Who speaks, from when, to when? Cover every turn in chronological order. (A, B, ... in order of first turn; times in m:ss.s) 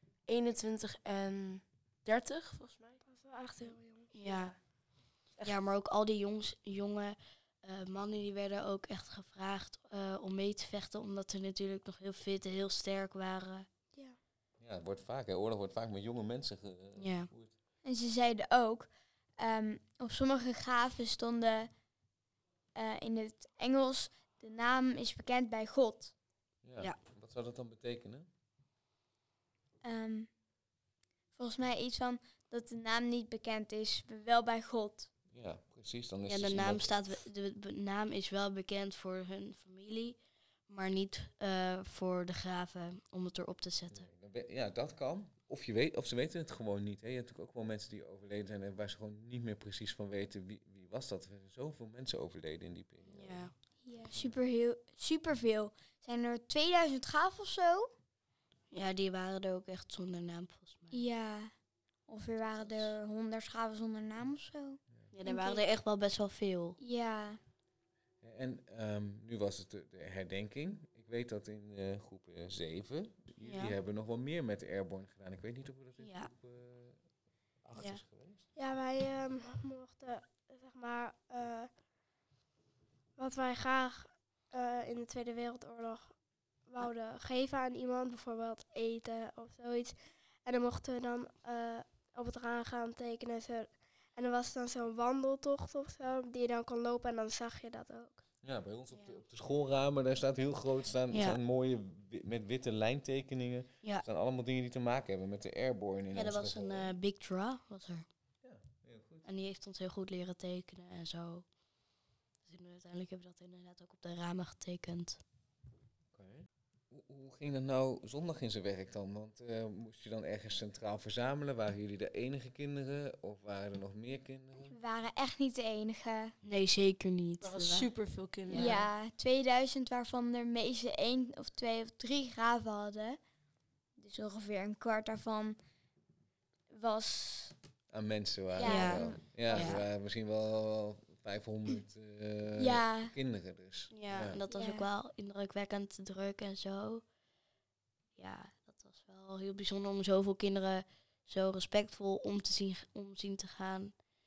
0:00.3-0:03.0 A
0:03.0-0:04.1 B
0:04.1-0:04.5 C
0:04.2-0:04.6 A
0:05.4-0:05.6 A
0:05.4-0:13.7 C
0:14.6-0:17.5 D
0:17.0-0:17.3 C
0:17.8-0:21.7 E
0:22.7-0:26.1 E
0:26.6-0:28.3 D
0:29.8-0:30.3 E
0:31.4-0:35.1 E
0:35.3-0:37.0 D
0:36.3-0:44.0 C
0:43.9-0:53.4 D
0:53.1-0:53.5 C
0:53.8-0:57.9 E
0:58.7-1:01.0 C
1:00.9-1:01.5 E
1:02.1-1:05.6 E
1:02.6-1:02.9 C
1:05.1-1:06.8 C
1:06.8-1:07.4 E
1:08.2-1:17.0 D
1:13.4-1:13.7 C
1:16.0-1:16.3 C
1:17.6-1:18.4 D
1:17.8-1:18.0 C
1:18.6-1:21.7 B
1:23.2-1:26.1 B
1:26.7-1:29.9 B
1:30.4-1:38.2 B
1:38.4-1:46.9 D
1:38.9-1:39.2 C
1:41.1-1:41.4 C
1:46.1-1:48.0 C
1:48.4-1:49.2 D
1:49.2-1:51.4 C
1:52.4-1:55.2 C
1:56.1-2:04.8 D
2:04.7-2:06.3 E
2:06.4-2:07.9 C
2:07.4-2:08.9 A
2:08.5-2:08.8 C
2:08.5-2:13.2 E
2:14.0-2:15.6 E
2:16.7-2:17.5 E
2:17.9-2:24.4 D
2:18.6-2:19.2 E
2:18.6-2:19.8 C
2:22.6-2:23.1 E
2:23.9-2:27.0 C
2:24.5-2:24.9 E
2:28.2-2:33.9 C